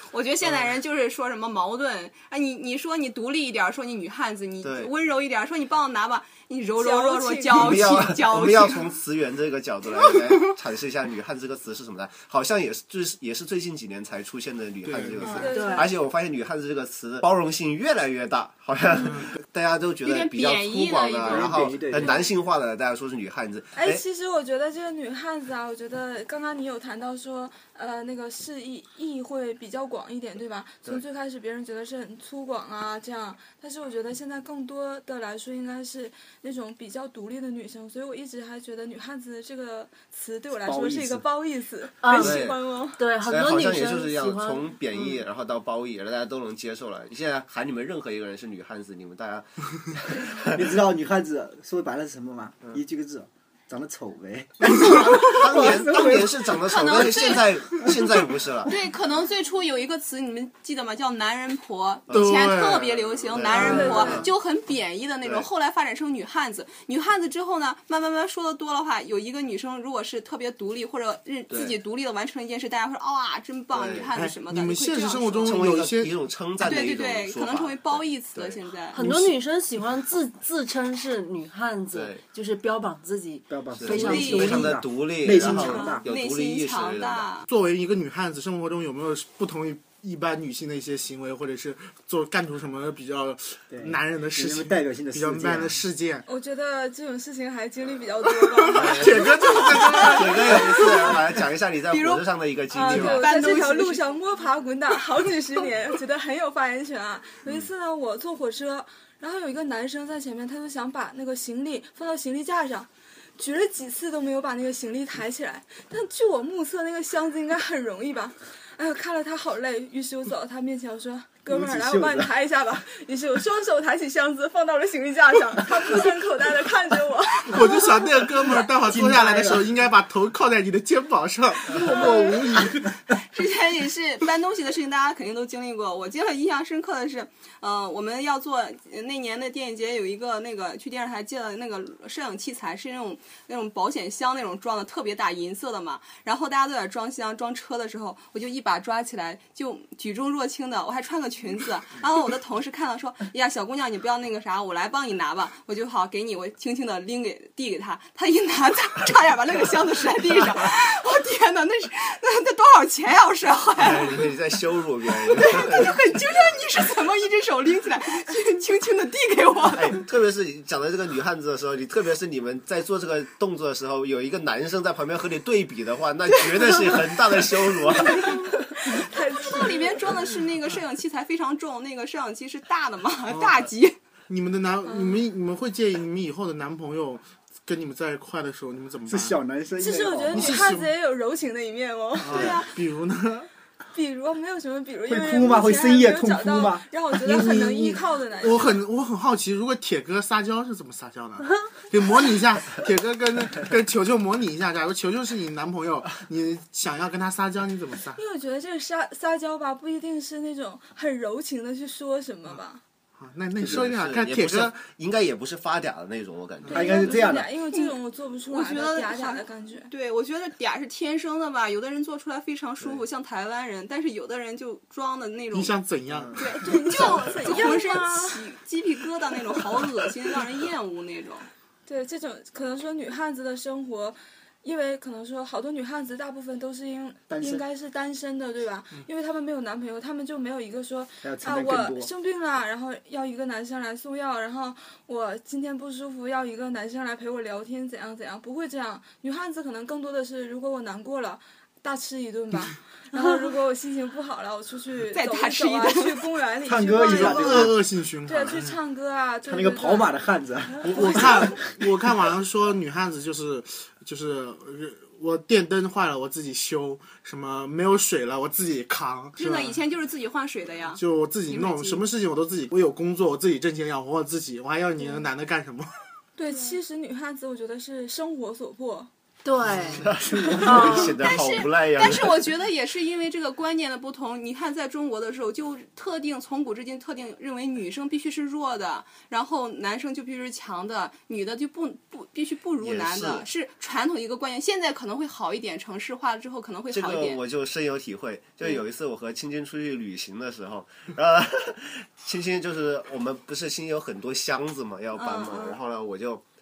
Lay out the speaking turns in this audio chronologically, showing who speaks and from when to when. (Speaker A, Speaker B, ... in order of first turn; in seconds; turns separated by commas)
Speaker A: 0.1-8.9, Speaker B: 0.4-0.7, Speaker B: 4.6-4.9, Speaker C: 6.8-7.8, Speaker B: 7.5-24.0, Speaker D: 14.8-15.4, Speaker C: 15.3-16.0, Speaker E: 15.3-15.9, Speaker D: 19.1-19.3, Speaker A: 20.0-22.2, Speaker F: 21.2-22.1, Speaker C: 23.8-43.0, Speaker F: 40.6-41.2, Speaker E: 42.0-45.2, Speaker B: 42.1-42.6, Speaker B: 43.2-50.7, Speaker F: 50.4-56.5, Speaker B: 55.0-58.8, Speaker A: 56.6-75.6, Speaker B: 62.1-64.3, Speaker D: 62.1-62.8, Speaker C: 63.5-64.2, Speaker B: 71.5-71.8, Speaker B: 73.7-74.1, Speaker D: 74.1-76.2, Speaker B: 75.4-78.6, Speaker A: 76.6-79.0, Speaker E: 78.9-84.7, Speaker F: 79.0-79.3, Speaker B: 81.9-82.2, Speaker F: 83.5-86.0, Speaker B: 83.8-87.3, Speaker A: 83.9-84.8, Speaker A: 85.3-87.5, Speaker D: 87.5-96.2, Speaker F: 93.7-95.8, Speaker C: 96.3-100.2, Speaker D: 98.5-101.1, Speaker B: 98.8-99.2, Speaker A: 99.8-101.2, Speaker B: 100.1-103.3, Speaker A: 101.9-104.1, Speaker C: 102.7-128.5, Speaker F: 121.5-122.3, Speaker D: 127.5-132.9, Speaker F: 128.8-129.7, Speaker C: 131.8-132.5, Speaker A: 133.2-164.3, Speaker B: 163.8-166.0, Speaker A: 165.2-170.0, Speaker B: 169.7-178.4, Speaker C: 178.1-180.1, Speaker A: 179.3-183.9, Speaker D: 183.3-183.6, Speaker D: 184.3-189.3, Speaker C: 184.8-185.2, Speaker F: 189.1-190.7, Speaker C: 189.8-192.4, Speaker D: 190.3-190.9, Speaker D: 192.2-193.5, Speaker A: 192.2-192.8, Speaker B: 192.3-192.6, Speaker C: 193.9-198.8, Speaker F: 195.1-196.8, Speaker D: 197.2-208.2, Speaker F: 197.5-197.9, Speaker C: 208.1-212.8, Speaker D: 213.2-214.8, Speaker B: 213.6-217.0, Speaker C: 216.7-219.9, Speaker F: 216.7-217.5, Speaker A: 218.5-225.8, Speaker D: 225.5-227.4, Speaker A: 226.4-231.5, Speaker C: 226.5-228.5, Speaker C: 231.9-257.7, Speaker F: 237.3-237.6, Speaker F: 241.2-242.1, Speaker A: 255.1-256.3, Speaker F: 256.7-257.8, Speaker D: 257.0-258.8, Speaker C: 258.2-260.1, Speaker F: 259.4-261.6, Speaker D: 260.8-269.8, Speaker C: 260.9-261.7, Speaker A: 269.4-272.0, Speaker D: 270.9-275.9, Speaker C: 276.4-279.1, Speaker E: 279.4-280.1, Speaker B: 280.0-282.5, Speaker F: 280.1-281.1, Speaker E: 280.6-281.2, Speaker A: 281.2-297.4, Speaker B: 292.8-293.4, Speaker B: 296.9-306.4, Speaker A: 305.1-305.8